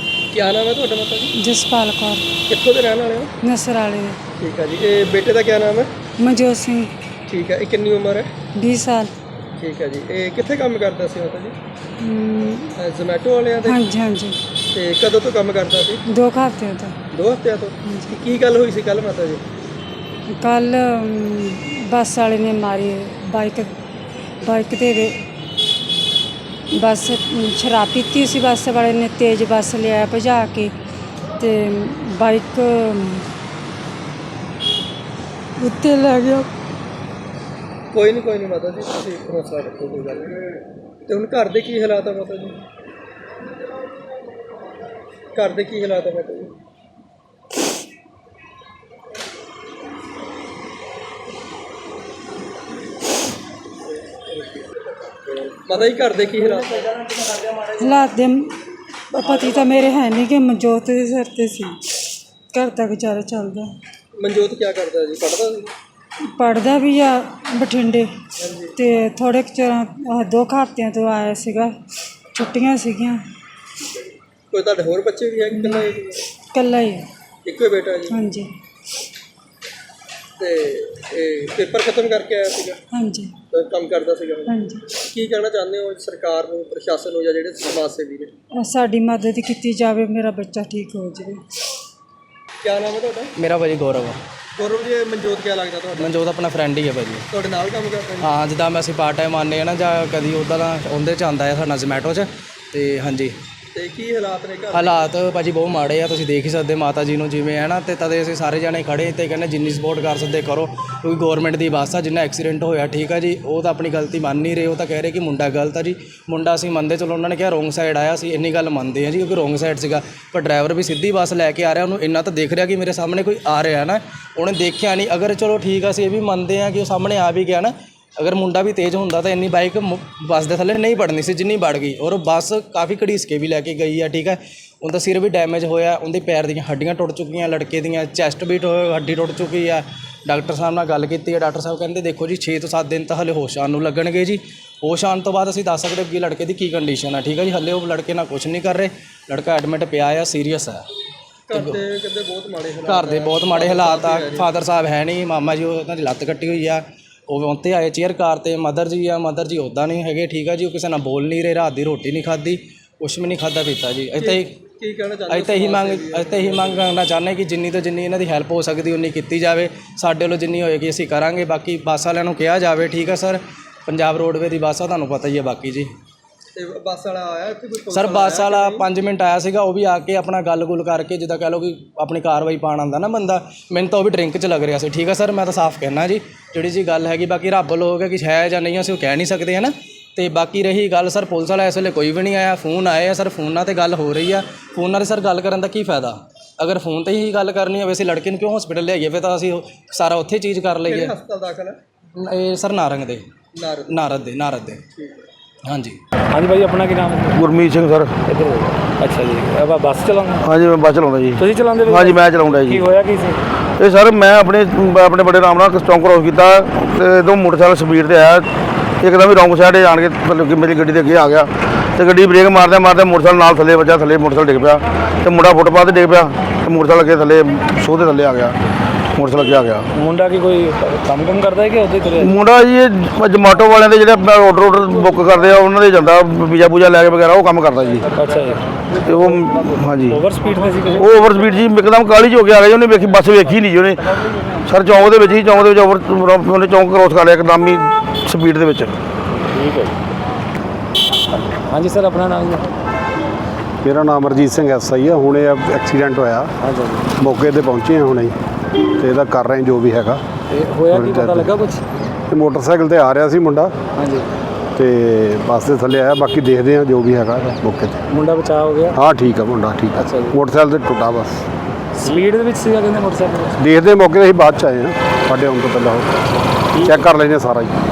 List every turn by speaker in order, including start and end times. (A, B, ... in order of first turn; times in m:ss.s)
0:00.3-0:01.3 A
0:01.4-0:02.2 B
0:02.5-0:03.3 A
0:03.4-0:04.2 B
0:04.4-0:05.9 A
0:06.2-0:06.9 B
0:07.3-0:08.3 A
0:08.6-0:09.1 B
0:09.6-0:11.6 A
0:12.0-0:12.7 B
0:12.8-0:13.8 A
0:13.6-0:14.4 B
0:14.7-0:16.0 A
0:16.1-0:17.0 B
0:17.1-0:19.4 A
0:17.8-0:18.1 B
0:20.3-0:23.7 B
0:24.4-0:25.2 B
0:26.7-0:30.7 B
0:31.4-0:33.3 B
0:35.6-0:36.5 B
0:37.9-0:40.4 A
0:41.0-0:42.6 A
0:45.3-0:46.6 A
0:53.9-0:56.9 A
0:57.8-0:58.6 B
0:59.1-1:01.8 B
1:02.5-1:03.7 B
1:04.1-1:05.7 A
1:06.3-1:08.1 B
1:08.4-1:08.7 A
1:08.8-1:11.7 B
1:12.3-1:13.2 B
1:14.5-1:16.2 A
1:15.5-1:15.8 B
1:16.5-1:17.0 B
1:17.4-1:18.2 A
1:18.1-1:18.5 B
1:20.4-1:22.8 A
1:22.9-1:23.3 B
1:23.5-1:28.3 A
1:24.5-1:24.8 B
1:28.6-1:31.4 B
1:32.6-1:33.3 A
1:33.4-1:34.2 C
1:34.6-1:36.2 A
1:36.0-1:37.2 C
1:37.3-1:38.3 A
1:38.2-1:43.3 C
1:43.7-1:45.1 A
1:44.7-2:30.8 C
2:31.5-2:34.5 A
2:31.5-2:31.8 C
2:32.9-2:44.6 C
2:44.2-2:46.9 A
2:45.3-2:55.9 C
2:56.5-2:58.9 A
2:57.9-3:21.1 C
3:20.8-3:21.8 A
3:22.2-3:23.3 C
3:23.5-3:23.9 A
3:23.9-3:24.8 C
3:24.9-3:25.2 A
3:25.6-3:26.0 C
3:26.3-3:27.4 D
3:27.3-3:28.1 E
3:28.2-3:30.4 D
3:30.4-3:32.8 E
3:31.4-3:33.4 D
3:33.8-3:38.5 E
3:39.0-3:48.6 E
3:49.1-3:49.8 E
3:49.9-3:52.3 D
3:52.2-3:58.1 E
3:58.1-3:59.4 D
3:59.0-4:00.2 E
4:00.0-4:01.2 D
4:01.0-4:04.0 E
4:04.6-4:08.9 E
4:09.5-4:10.0 D
4:11.3-4:12.7 D
4:13.8-4:16.5 F
4:16.6-4:17.1 D
4:17.2-4:18.3 F
4:19.0-4:20.2 F
4:20.5-4:21.8 D
4:20.9-4:21.5 F
4:22.3-4:23.7 F
4:24.0-4:24.3 D
4:24.7-4:28.0 F
4:28.1-4:29.0 D
4:28.9-4:31.4 F
4:30.0-4:30.4 D
4:32.0-4:33.6 D
4:33.6-4:36.1 F
4:36.8-4:37.1 D
4:36.8-4:37.7 F